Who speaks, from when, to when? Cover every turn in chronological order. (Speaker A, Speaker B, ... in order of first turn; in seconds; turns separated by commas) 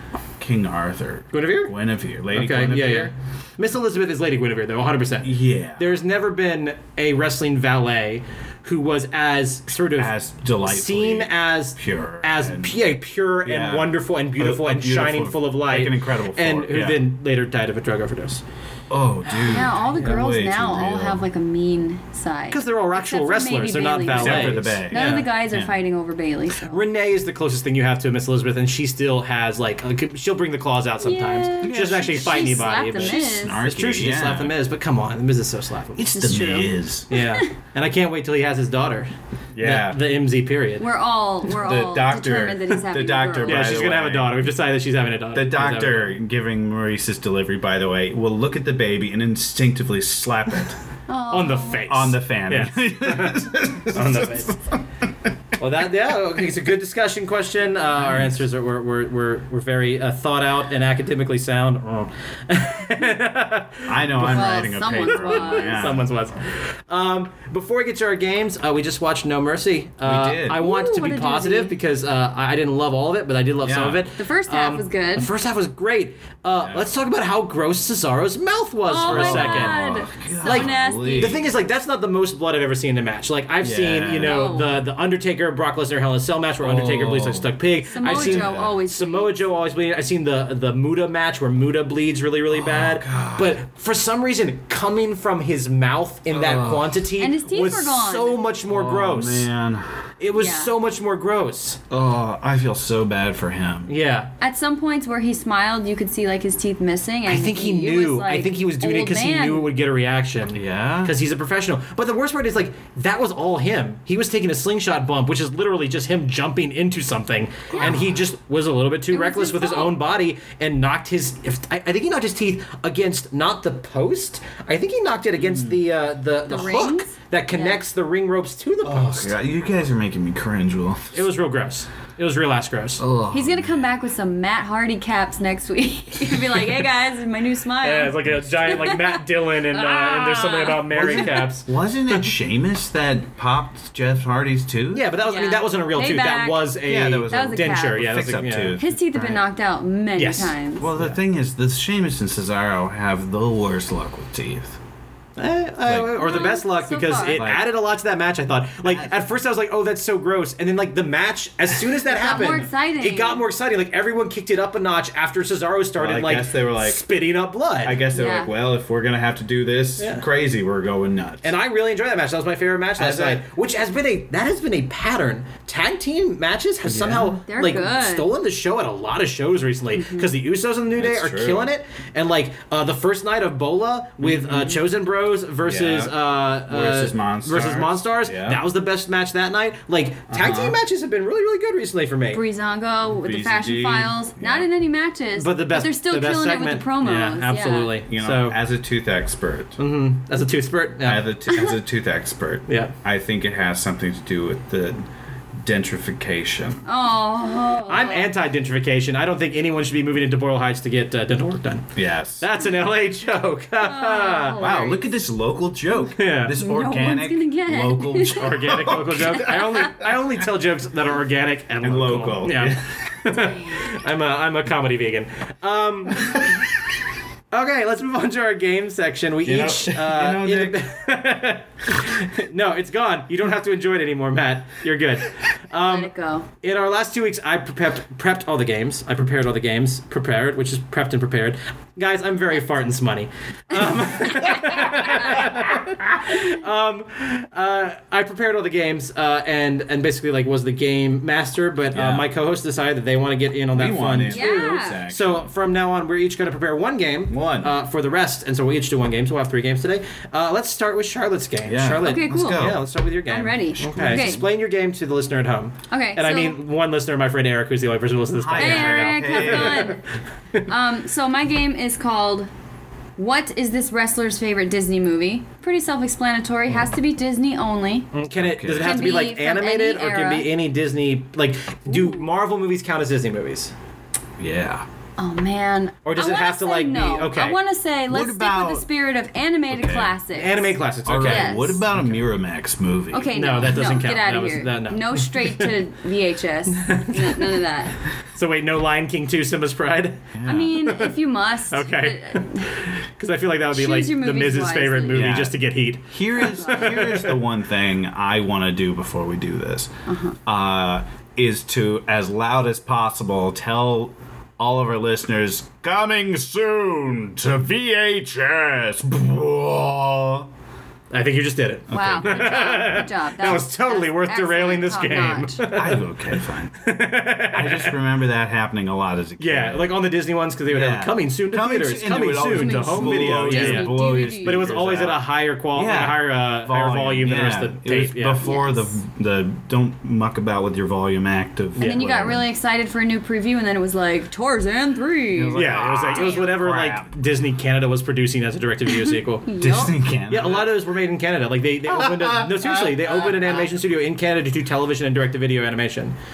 Speaker A: 0.4-3.1, Speaker B: 1.3-1.7, Speaker B: 2.3-10.1, Speaker A: 5.2-6.0, Speaker A: 10.0-12.8, Speaker B: 10.6-18.4, Speaker A: 13.4-17.1, Speaker A: 18.9-21.2, Speaker C: 19.4-26.8, Speaker B: 19.9-20.2, Speaker B: 22.5-25.3, Speaker A: 24.1-25.7, Speaker B: 26.6-40.9, Speaker C: 31.0-33.6, Speaker A: 31.6-34.5, Speaker A: 36.0-37.1, Speaker C: 37.1-37.4, Speaker A: 39.5-40.0, Speaker C: 40.8-43.8, Speaker A: 41.5-44.4, Speaker B: 43.5-46.2, Speaker A: 45.3-50.8, Speaker C: 51.1-51.9, Speaker B: 51.3-54.5, Speaker A: 51.9-54.8, Speaker B: 55.6-79.8, Speaker A: 58.0-58.3, Speaker A: 63.9-66.0, Speaker C: 64.2-66.0, Speaker A: 70.0-70.6, Speaker C: 70.5-71.8, Speaker A: 73.6-74.0, Speaker C: 74.2-75.3, Speaker A: 76.6-76.9, Speaker C: 78.9-81.4, Speaker A: 79.0-81.5, Speaker B: 80.4-99.5, Speaker A: 83.6-84.4, Speaker C: 84.2-84.7, Speaker A: 86.6-88.8, Speaker C: 87.9-89.4, Speaker A: 92.5-93.5, Speaker A: 96.3-97.0, Speaker C: 97.2-98.4, Speaker A: 98.7-100.1, Speaker B: 100.2-101.8, Speaker C: 100.3-100.7, Speaker A: 101.9-103.9, Speaker B: 103.9-104.3, Speaker C: 104.4-109.7, Speaker B: 107.3-129.4, Speaker A: 110.5-111.1, Speaker A: 117.8-118.1, Speaker C: 119.1-120.0, Speaker A: 125.4-125.8, Speaker C: 126.5-127.8, Speaker A: 128.8-131.3, Speaker B: 131.1-133.1, Speaker A: 133.0-133.9, Speaker C: 133.3-141.5, Speaker B: 137.8-141.7, Speaker A: 138.3-138.8, Speaker A: 141.0-145.1, Speaker B: 144.9-148.8, Speaker C: 145.2-148.2, Speaker A: 146.8-149.4, Speaker C: 148.8-150.9, Speaker B: 150.2-151.2, Speaker A: 150.8-154.8, Speaker B: 155.4-168.0, Speaker A: 155.8-156.4, Speaker C: 156.2-157.4, Speaker A: 157.3-157.7, Speaker A: 158.8-159.1, Speaker C: 162.1-163.4, Speaker A: 166.0-167.0, Speaker A: 167.8-171.5, Speaker C: 168.1-168.5, Speaker B: 170.0-170.2, Speaker B: 171.4-192.4, Speaker A: 173.0-173.4, Speaker A: 176.9-177.4, Speaker C: 177.5-178.3, Speaker C: 179.9-180.3, Speaker A: 180.9-181.7, Speaker A: 184.2-184.8, Speaker A: 185.6-188.6, Speaker A: 190.3-190.8, Speaker C: 192.3-198.0, Speaker A: 193.1-194.7, Speaker B: 195.4-198.6, Speaker A: 198.1-199.8, Speaker B: 199.8-201.3, Speaker A: 201.0-205.0, Speaker B: 202.7-202.9, Speaker A: 205.6-206.8, Speaker C: 206.9-208.3, Speaker B: 207.9-214.6, Speaker A: 211.9-212.5, Speaker C: 213.8-215.1, Speaker A: 214.6-220.1, Speaker B: 216.2-216.6, Speaker C: 216.6-218.4, Speaker B: 218.4-226.3, Speaker A: 221.8-223.0, Speaker B: 227.5-236.1, Speaker A: 229.4-230.8, Speaker C: 235.7-236.5, Speaker B: 236.6-270.0, Speaker C: 244.4-245.4, Speaker A: 251.9-252.3, Speaker A: 253.8-255.5, Speaker C: 254.3-255.0, Speaker A: 257.3-257.7, Speaker A: 261.7-262.8, Speaker C: 262.0-264.4, Speaker A: 263.8-264.4, Speaker C: 265.9-266.6, Speaker A: 268.4-269.9, Speaker C: 268.6-270.0, Speaker C: 270.6-272.5, Speaker C: 273.2-278.1, Speaker B: 278.1-283.7, Speaker A: 278.4-279.1, Speaker C: 278.7-280.5, Speaker C: 281.9-282.3, Speaker A: 284.4-284.9, Speaker C: 285.2-291.8, Speaker B: 286.0-287.6, Speaker A: 288.1-288.9, Speaker A: 289.7-290.1, Speaker B: 290.3-292.2, Speaker A: 291.1-294.0, Speaker C: 293.1-298.0, Speaker B: 293.3-295.7, Speaker B: 296.7-297.6, Speaker B: 298.2-301.1, Speaker A: 300.3-300.8, Speaker C: 300.4-302.7, Speaker B: 301.7-307.4, Speaker C: 303.7-305.3, Speaker A: 305.1-305.6, Speaker A: 306.1-309.9, Speaker C: 306.5-307.1, Speaker C: 310.1-310.4, Speaker A: 310.5-320.5, Speaker B: 321.1-326.1, Speaker A: 321.9-322.8, Speaker C: 321.9-325.6, Speaker A: 325.7-326.9, Speaker B: 326.8-328.0, Speaker A: 327.5-329.9, Speaker B: 329.4-338.4, Speaker A: 330.7-342.4, Speaker C: 332.4-334.7, Speaker C: 338.4-339.0, Speaker B: 341.7-342.3, Speaker C: 341.8-346.6, Speaker A: 345.3-347.1, Speaker B: 345.5-349.5, Speaker C: 349.0-349.9, Speaker A: 349.6-350.8, Speaker B: 350.3-356.1, Speaker A: 351.9-353.7